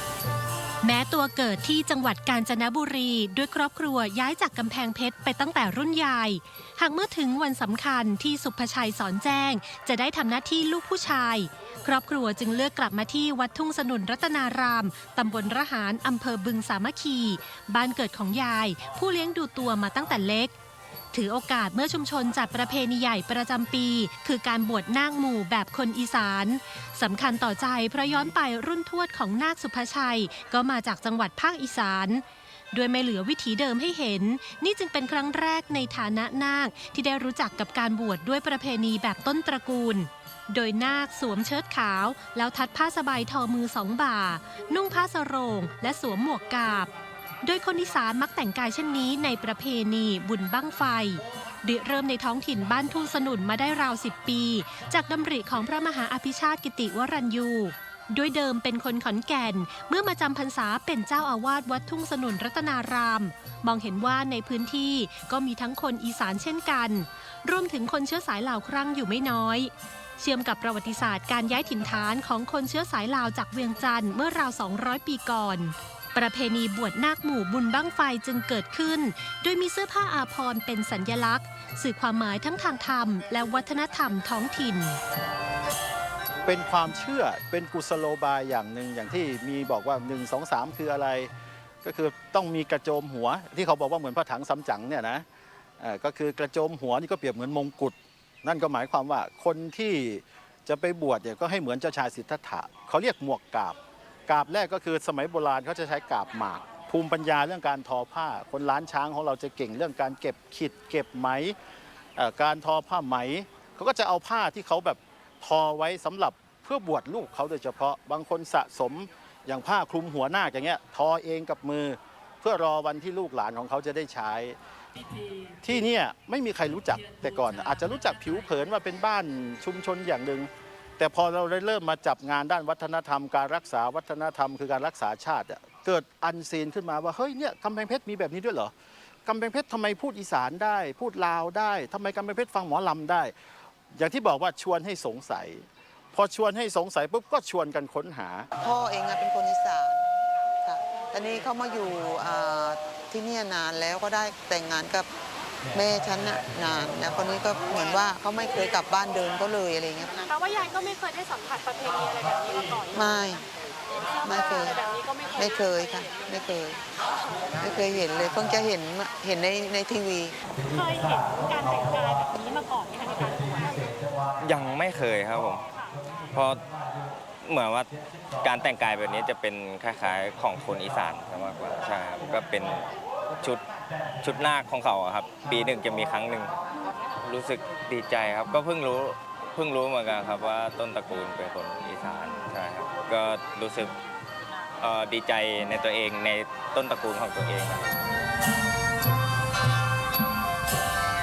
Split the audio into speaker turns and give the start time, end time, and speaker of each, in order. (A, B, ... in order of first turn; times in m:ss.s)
0:00.8-0:20.5 A
0:21.1-0:46.9 A
0:47.4-1:25.0 A
1:26.4-1:31.3 B
1:31.8-1:35.2 B
1:35.8-1:43.8 B
1:44.3-1:51.6 B
1:52.2-2:04.6 B
2:05.6-2:18.7 B
2:19.2-2:23.3 B
2:23.9-2:28.5 B
2:28.6-2:30.1 C
2:30.6-2:35.1 C
2:35.7-2:40.3 C
2:40.3-2:43.4 D
2:42.9-2:43.4 C
2:44.2-2:46.1 D
2:44.2-2:44.8 C
2:45.3-2:46.8 C
2:47.6-2:50.4 C
2:50.6-2:53.8 D
2:54.4-2:55.6 E
2:56.3-2:56.6 E
2:57.4-3:02.9 E
3:04.2-3:06.5 E
3:07.2-3:13.9 E
3:14.8-3:17.9 E